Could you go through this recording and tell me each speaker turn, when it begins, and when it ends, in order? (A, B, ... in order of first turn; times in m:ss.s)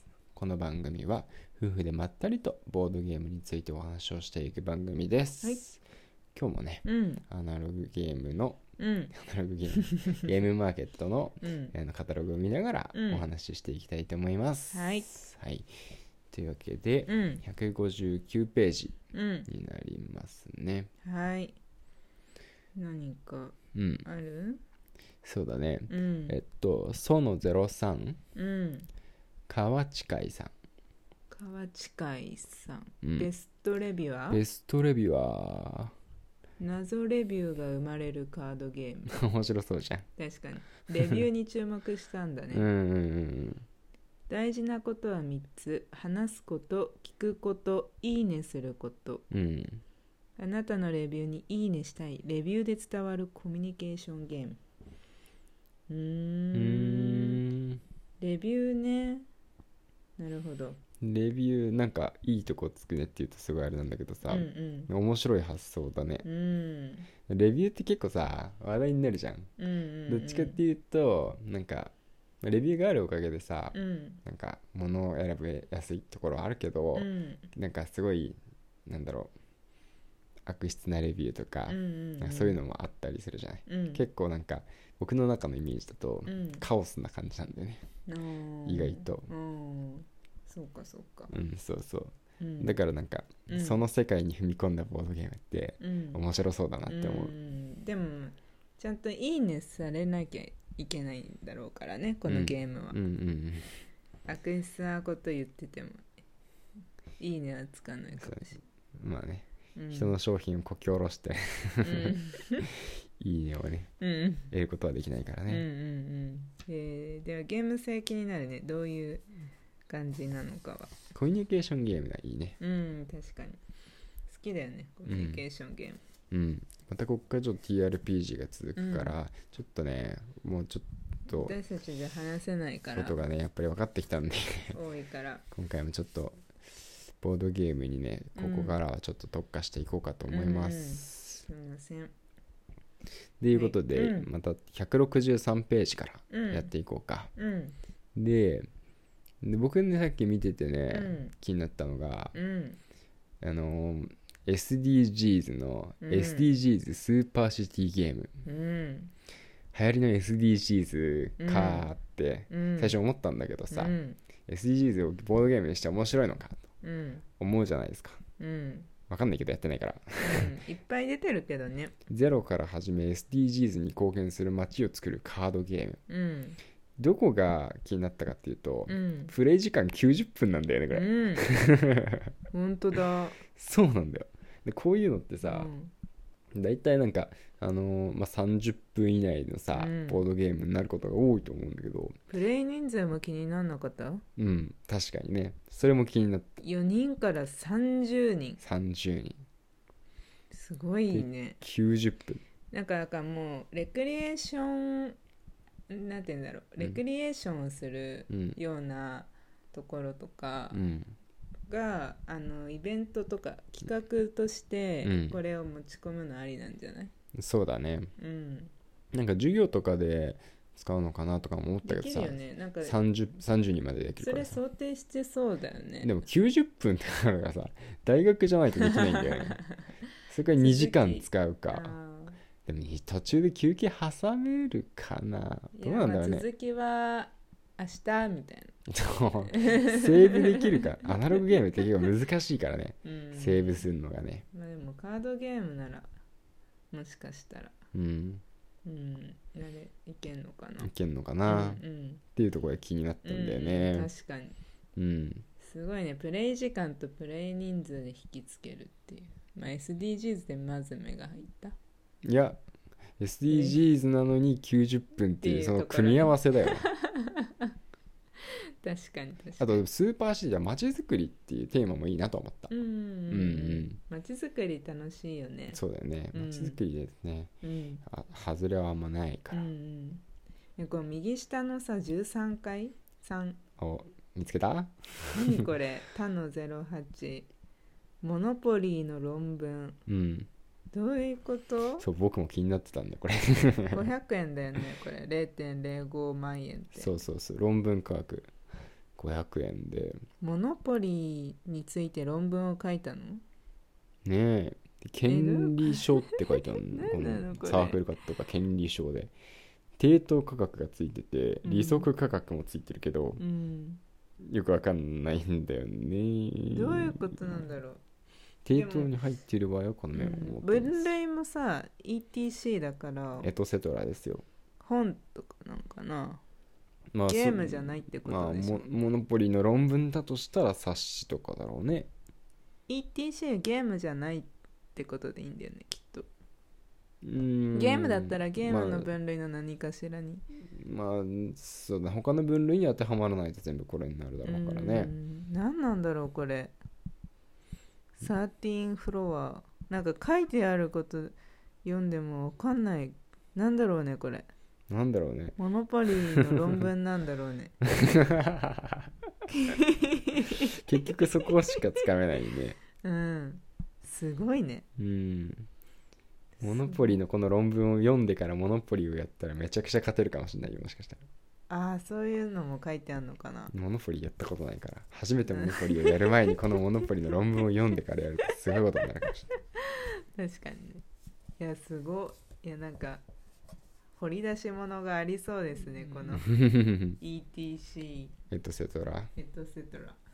0:00.3-0:05.8 A
0:06.4-0:08.6 A
0:06.8-0:07.2 B
0:08.8-0:09.1 B
0:09.1-0:15.7 A
0:09.8-0:10.2 B
0:11.4-0:11.7 B
0:12.9-0:13.2 B
0:14.7-0:15.1 B
0:16.3-0:20.9 A
0:17.1-0:17.4 B
0:19.1-0:19.5 B
0:21.0-0:21.6 B
0:22.8-0:24.6 B
0:23.8-0:24.1 A
0:25.2-0:28.2 A
0:25.9-0:26.4 B
0:28.4-0:28.9 B
0:29.5-0:30.5 A
0:31.3-0:34.4 B
0:33.0-0:33.3 A
0:34.3-0:35.9 A
0:36.6-0:39.2 B
0:39.1-0:40.1 A
0:40.2-0:42.6 B
0:42.5-0:43.6 A
0:44.3-0:49.2 B
0:49.3-0:49.8 A
0:50.4-0:54.6 B
0:55.9-0:57.4 B
0:56.5-0:57.8 A
0:58.2-0:59.3 B
1:00.2-1:00.8 B
1:01.0-1:06.3 A
1:04.2-1:04.9 B
1:06.2-1:07.1 B
1:07.3-1:09.5 A
1:09.6-1:10.6 B
1:10.1-1:19.3 A
1:13.7-1:14.2 B
1:17.0-1:17.5 B
1:20.5-1:27.8 A
1:21.7-1:22.6 B
1:23.7-1:24.1 B
1:26.3-1:26.6 B
1:28.1-1:31.3 B
1:28.6-1:29.3 A
1:31.3-1:37.4 A
1:32.4-1:32.8 B
1:33.5-1:33.8 B
1:35.8-1:36.2 B
1:36.9-1:43.0 B
1:42.3-1:43.7 A
1:44.3-1:46.1 B
1:47.2-1:48.6 B
1:48.2-1:52.2 A
1:49.8-1:50.2 B
1:51.8-1:52.7 B
1:52.7-1:53.9 A
1:54.0-1:54.5 B
1:54.5-1:55.7 A
1:55.5-1:59.2 B
1:59.9-2:00.9 B
2:01.1-2:02.6 A
2:02.6-2:03.6 B
2:04.3-2:06.0 B
2:05.1-2:05.4 A
2:06.3-2:11.6 A
2:08.8-2:09.2 B
2:11.3-2:13.2 B
2:12.9-2:14.8 A
2:14.7-2:15.4 B
2:15.5-2:16.6 A
2:17.2-2:21.4 A
2:18.4-2:18.8 B
2:20.3-2:22.1 B
2:23.4-2:27.3 A
2:23.5-2:24.3 B
2:26.3-2:26.7 B
2:27.4-2:27.8 B
2:28.2-2:28.7 A
2:29.4-2:32.4 A
2:30.9-2:31.3 B
2:32.3-2:32.8 B
2:33.4-2:38.3 A
2:36.0-2:36.5 B
2:38.4-2:39.1 B
2:39.7-2:43.9 A
2:41.4-2:41.9 B
2:42.5-2:43.0 B
2:43.7-2:44.2 B
2:44.5-2:46.6 A
2:46.8-2:47.2 B
2:47.4-2:48.2 A
2:48.4-2:48.9 B
2:49.1-2:50.6 A
2:50.2-2:52.0 B
2:52.1-2:56.0 A
2:56.1-2:56.6 B
2:57.0-3:02.3 A
2:58.9-2:59.3 B
3:00.9-3:01.5 B
3:02.5-3:03.4 B
3:03.6-3:05.7 A
3:05.4-3:05.9 B
3:06.6-3:12.2 A
3:09.7-3:10.2 B
3:12.3-3:14.2 B
3:14.4-3:16.6 A
3:16.6-3:18.6 B
3:18.6-3:19.4 A
3:20.5-3:21.6 B
3:21.1-3:22.4 A
3:22.7-3:25.2 B
3:25.9-3:30.8 B
3:28.3-3:28.6 A
3:30.7-3:31.2 A
3:31.7-3:37.1 B
3:35.0-3:35.4 A
3:37.4-3:38.1 A
3:38.2-3:38.7 B
3:39.1-3:44.6 A
3:41.8-3:43.0 B
3:44.2-3:46.1 B
3:46.0-3:49.6 A
3:48.8-3:49.8 B
3:50.3-3:52.0 A
3:50.5-3:52.4 B
3:52.7-3:56.5 A
3:55.8-3:58.8 B
3:58.9-4:04.4 A
3:59.5-4:00.7 B
4:03.0-4:03.9 B
4:04.5-4:06.1 B
4:06.9-4:07.8 B
4:07.9-4:08.4 A
4:08.8-4:10.9 B
4:10.8-4:11.8 A
4:11.5-4:12.2 B
4:12.4-4:14.1 A
4:13.2-4:14.6 B
4:15.0-4:15.4 A
4:15.6-4:21.8 B
4:22.2-4:22.6 A
4:23.2-4:26.8 A
4:23.5-4:23.8 B
4:25.4-4:27.7 B
4:28.4-4:29.8 B
4:29.6-4:32.7 A
4:32.7-4:35.8 B
4:33.3-4:34.0 A
4:35.7-4:37.5 A
4:36.3-4:36.8 B
4:37.6-4:38.0 B
4:38.1-4:39.7 A
4:39.5-4:40.2 B
4:40.8-4:43.6 B
4:43.8-4:45.6 A
4:45.3-4:47.5 B
4:48.2-4:50.0 B
4:50.1-4:50.5 A
4:50.9-4:52.1 B
4:52.0-4:54.1 A
4:53.9-4:57.1 B
4:56.9-4:58.5 A
4:59.2-5:00.2 A
5:00.4-5:03.4 B
5:04.2-5:09.3 A
5:05.2-5:08.0 B
5:10.0-5:13.4 A
5:11.6-5:12.1 B
5:13.4-5:14.0 B
5:14.4-5:17.2 A
5:16.7-5:18.0 B
5:18.6-5:21.1 A
5:18.7-5:19.1 B
5:20.1-5:23.5 B
5:23.4-5:24.4 A
5:24.8-5:26.4 B
5:27.1-5:32.1 A
5:27.3-5:28.9 B
5:32.9-5:36.3 B
5:37.2-5:39.1 A
5:37.7-5:40.4 B
5:40.6-5:45.1 A
5:44.4-5:46.8 B
5:48.2-5:54.5 B
5:54.9-5:55.6 A
5:55.6-5:57.8 B
5:57.9-5:59.0 A
5:59.5-6:00.8 B
6:00.8-6:02.8 A
6:03.0-6:04.8 B
6:05.0-6:05.7 A
6:06.6-6:07.2 B
6:06.6-6:11.2 A
6:11.7-6:13.7 B
6:13.7-6:19.5 A
6:15.5-6:16.8 B
6:19.5-6:21.0 B
6:21.6-6:23.2 B
6:24.2-6:26.6 B
6:26.3-6:27.2 A
6:27.2-6:28.3 B
6:28.5-6:29.3 A
6:29.4-6:30.2 B